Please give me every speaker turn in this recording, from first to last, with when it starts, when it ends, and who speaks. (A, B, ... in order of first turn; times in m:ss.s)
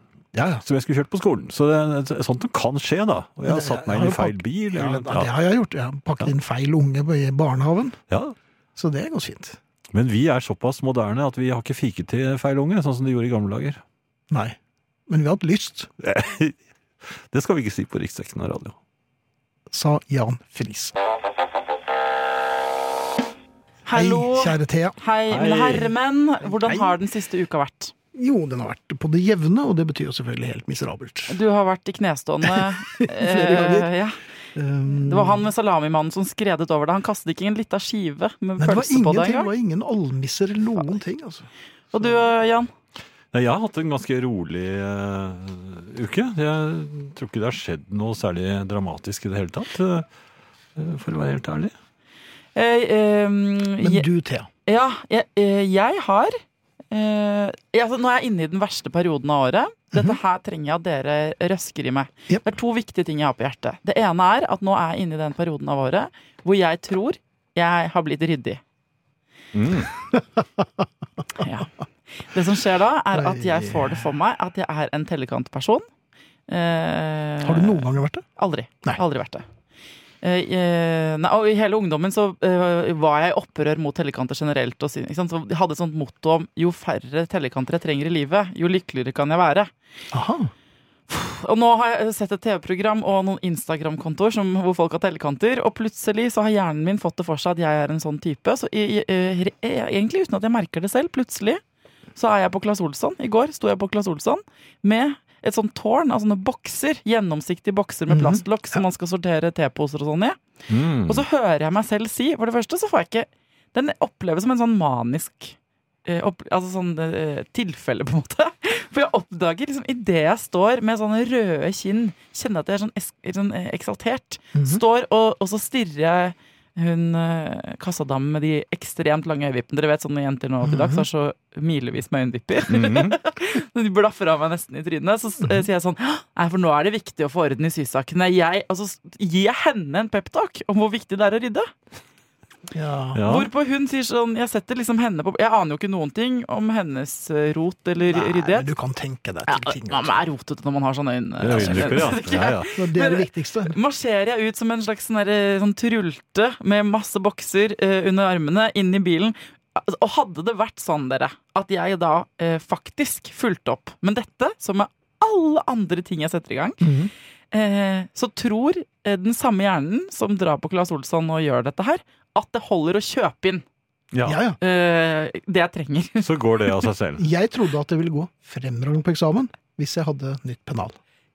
0:00.3-0:00.6 A
0:00.6-0:05.3 B
0:03.4-0:08.0 A
0:08.8-0:09.6 A
0:09.9-0:13.8 B
0:14.3-0:14.6 A
0:15.1-0:15.9 A
0:16.0-0:16.6 B
0:17.2-0:18.7 B
0:19.7-0:20.9 A
0:23.8-0:27.9 C
0:23.9-0:25.0 A
0:25.3-0:25.9 B
0:26.6-0:26.9 A
0:28.1-0:31.4 A
0:31.3-0:34.2 C
0:32.5-0:33.9 A
0:34.5-0:35.5 A
0:34.9-0:39.5 C
0:38.6-0:42.1 A
0:41.9-0:42.7 C
0:43.3-0:50.1 B
0:50.8-0:51.7 B
0:52.5-0:54.0 C
0:53.8-0:54.5 A
0:54.6-0:56.4 C
0:56.9-1:08.6 C
0:59.9-1:00.2 A
1:09.5-1:09.9 B
1:09.9-1:10.6 A
1:11.4-1:15.8 C
1:13.1-1:14.0 A
1:16.5-1:19.4 C
1:17.4-1:18.2 A
1:20.2-1:29.7 C
1:30.1-1:30.5 A
1:31.1-1:41.6 C
1:42.2-1:50.4 C
1:48.1-1:48.4 A
1:50.7-1:51.2 B
1:51.1-2:21.7 C
2:04.5-2:04.8 A
2:10.6-2:11.0 A
2:12.7-2:13.2 B
2:22.7-2:23.2 A
2:23.1-2:23.5 B
2:23.2-2:28.7 C
2:28.1-2:30.2 A
2:29.5-2:46.8 C
2:31.4-2:32.7 B
2:31.5-2:33.8 A
2:46.8-2:47.1 A
2:47.5-2:53.6 C
2:54.1-2:54.4 B
2:54.2-2:54.6 A
2:54.6-2:56.3 C
2:56.2-2:57.2 B
2:57.2-3:01.0 A